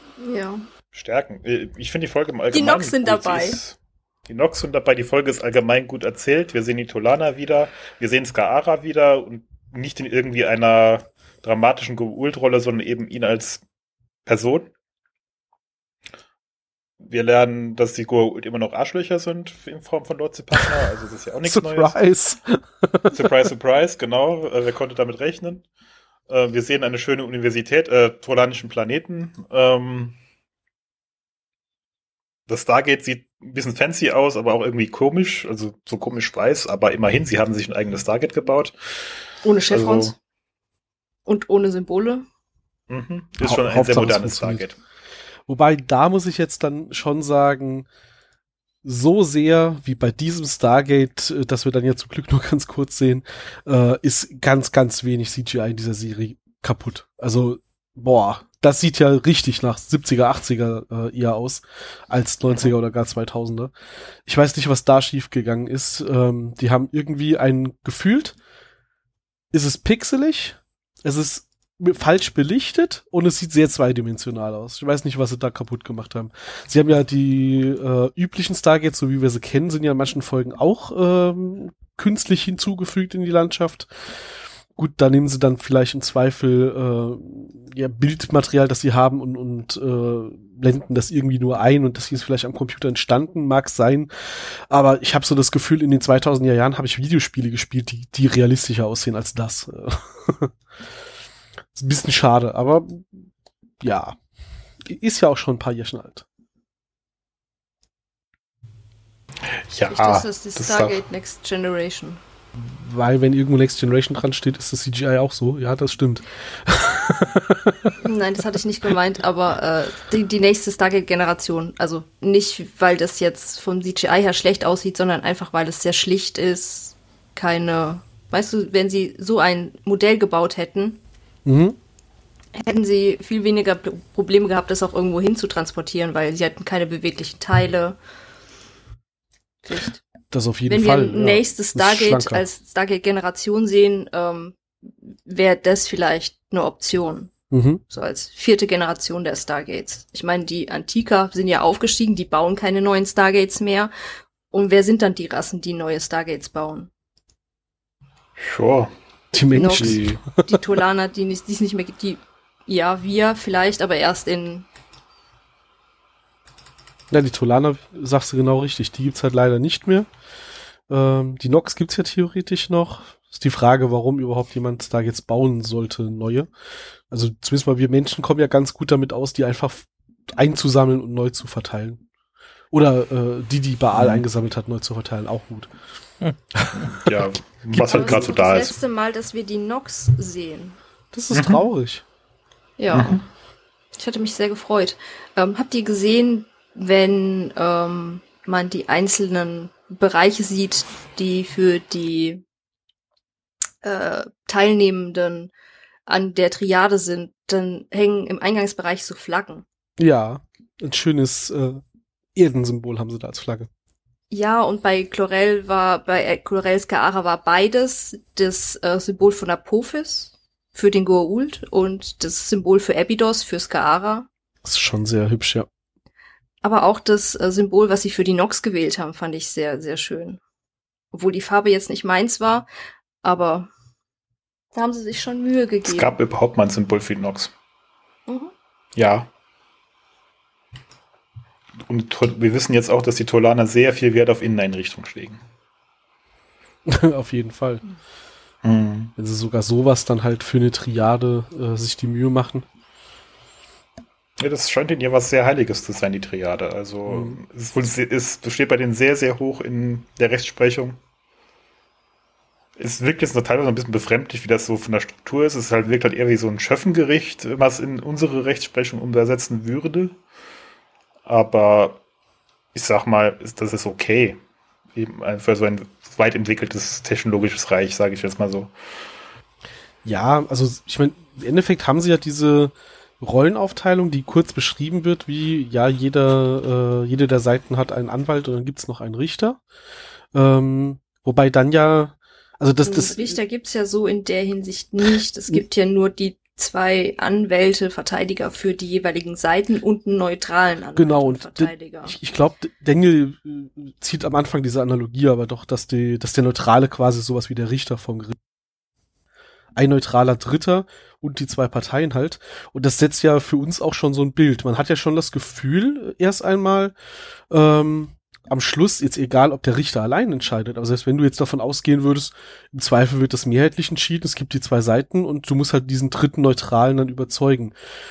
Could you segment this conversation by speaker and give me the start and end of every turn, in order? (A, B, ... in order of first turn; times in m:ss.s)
0:00.2-0:00.7 A
0:00.9-0:03.8 B
0:02.5-0:03.6 A
0:04.3-0:13.6 B
0:14.3-0:14.7 B
0:17.0-0:21.9 B
0:21.5-0:23.3 C
0:23.1-0:25.6 B
0:26.3-0:30.2 B
0:32.5-0:38.8 B
0:39.4-0:40.2 A
0:39.7-0:40.2 B
0:41.3-0:42.3 A
0:42.9-0:44.8 B
0:43.4-0:44.6 C
0:45.5-0:47.9 C
0:48.8-1:03.7 C
1:04.3-1:08.4 C
1:09.5-1:23.9 C
1:24.8-1:40.5 C
1:41.8-1:43.3 C
1:43.8-1:44.2 C
1:44.9-1:46.2 C
1:49.7-1:51.0 B
1:49.9-1:52.2 A
1:52.6-1:57.9 C
1:58.0-2:11.0 A
2:11.4-2:11.8 C
2:12.6-2:18.0 A
2:19.6-2:20.0 A
2:20.3-2:22.4 C
2:20.7-2:27.3 A
2:27.5-2:27.8 C
2:27.9-2:33.9 A
2:34.5-2:36.9 A
2:38.4-2:38.9 B
2:39.3-2:40.2 C
2:39.6-2:44.7 A
2:39.7-2:40.2 B
2:47.1-2:50.1 C
2:50.9-2:56.5 C
2:57.1-3:02.0 C
3:02.7-3:05.7 C
3:03.9-3:04.2 B
3:06.5-3:07.1 C
3:06.8-3:08.8 B
3:07.7-3:08.3 C
3:07.9-3:10.8 A
3:11.1-3:12.0 C
3:11.3-3:11.6 B
3:12.8-3:13.2 A
3:12.9-3:13.2 B
3:14.0-3:22.4 A
3:23.8-3:25.5 A
3:26.1-3:29.6 A
3:30.0-3:31.8 C
3:32.4-3:33.7 C
3:34.3-3:44.3 A
3:44.6-3:45.7 C
3:46.6-3:50.4 A
3:51.1-3:52.7 A
3:53.2-3:53.7 A
3:54.7-3:56.2 A
3:55.8-3:57.5 B
3:58.3-3:58.5 A
3:59.0-3:59.3 B
4:01.8-4:05.4 B
4:06.8-4:07.8 C
4:08.6-4:09.1 B
4:09.2-4:12.7 C
4:14.4-4:21.0 B
4:17.1-4:17.4 C
4:22.8-4:30.2 B
4:31.3-4:32.0 B
4:32.8-4:34.4 B
4:35.0-4:38.7 B
4:40.0-4:49.6 C
4:50.3-4:53.4 C
4:52.8-5:02.2 A
5:01.0-5:08.4 C
5:09.8-5:16.9 C
5:17.5-5:27.8 C